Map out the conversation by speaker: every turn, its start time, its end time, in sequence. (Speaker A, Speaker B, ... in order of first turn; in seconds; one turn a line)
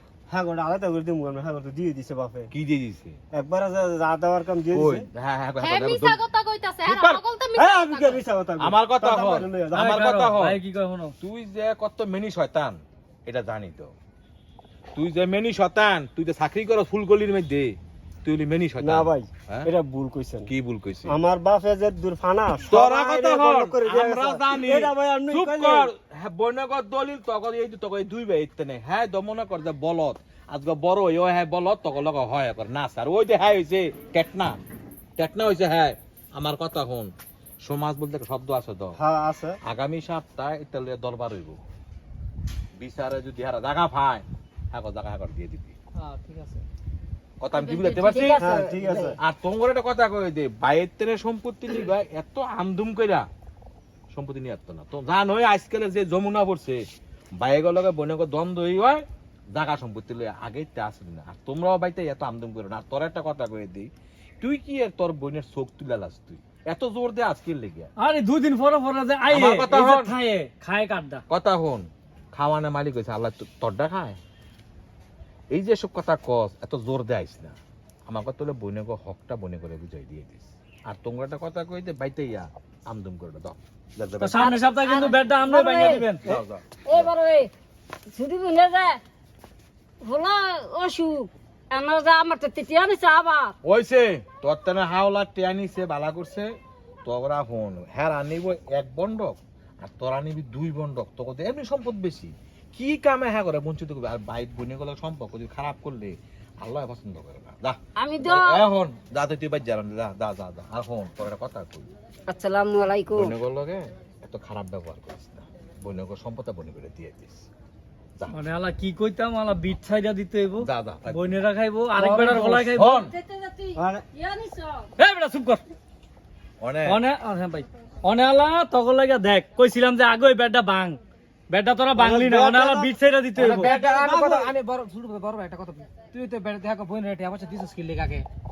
Speaker A: 0.3-2.5
Speaker B: 2.5-3.2
Speaker A: 3.3-5.1
Speaker B: 4.7-6.2
Speaker C: 5.6-8.2
Speaker B: 6.9-7.2
Speaker A: 7.6-10.0
Speaker B: 8.6-10.6
Speaker D: 9.8-11.1
Speaker B: 11.2-13.9
Speaker B: 14.9-19.7
Speaker A: 18.8-20.5
Speaker B: 20.5-21.2
Speaker A: 21.1-25.9
Speaker B: 22.6-34.6
Speaker B: 35.2-37.1
Speaker B: 37.6-39.0
Speaker A: 39.0-39.6
Speaker B: 39.6-41.6
Speaker B: 42.8-45.8
Speaker E: 46.0-46.6
Speaker B: 47.4-48.5
Speaker F: 47.8-49.1
Speaker A: 48.2-49.2
Speaker B: 49.2-53.3
Speaker B: 54.1-56.8
Speaker B: 57.4-63.9
Speaker B: 64.4-67.9
Speaker D: 68.0-71.2
Speaker B: 69.3-70.2
Speaker B: 71.3-74.2
Speaker B: 75.5-77.5
Speaker B: 78.1-84.5
Speaker D: 84.2-86.4
Speaker F: 84.3-86.1
Speaker B: 86.2-87.1
Speaker F: 86.9-87.5
Speaker F: 88.1-89.0
Speaker F: 90.0-93.5
Speaker B: 93.6-96.5
Speaker B: 97.0-111.9
Speaker F: 108.0-108.7
Speaker F: 112.3-113.3
Speaker B: 113.1-117.4
Speaker D: 118.3-122.9
Speaker B: 120.6-121.4
Speaker A: 122.0-122.6
Speaker B: 122.7-123.1
Speaker F: 122.8-124.9
Speaker A: 123.8-124.0
Speaker D: 125.0-125.6
Speaker B: 126.6-127.0
Speaker D: 126.8-131.0
Speaker D: 131.5-133.7
Speaker A: 132.0-134.5
Speaker E: 133.4-138.2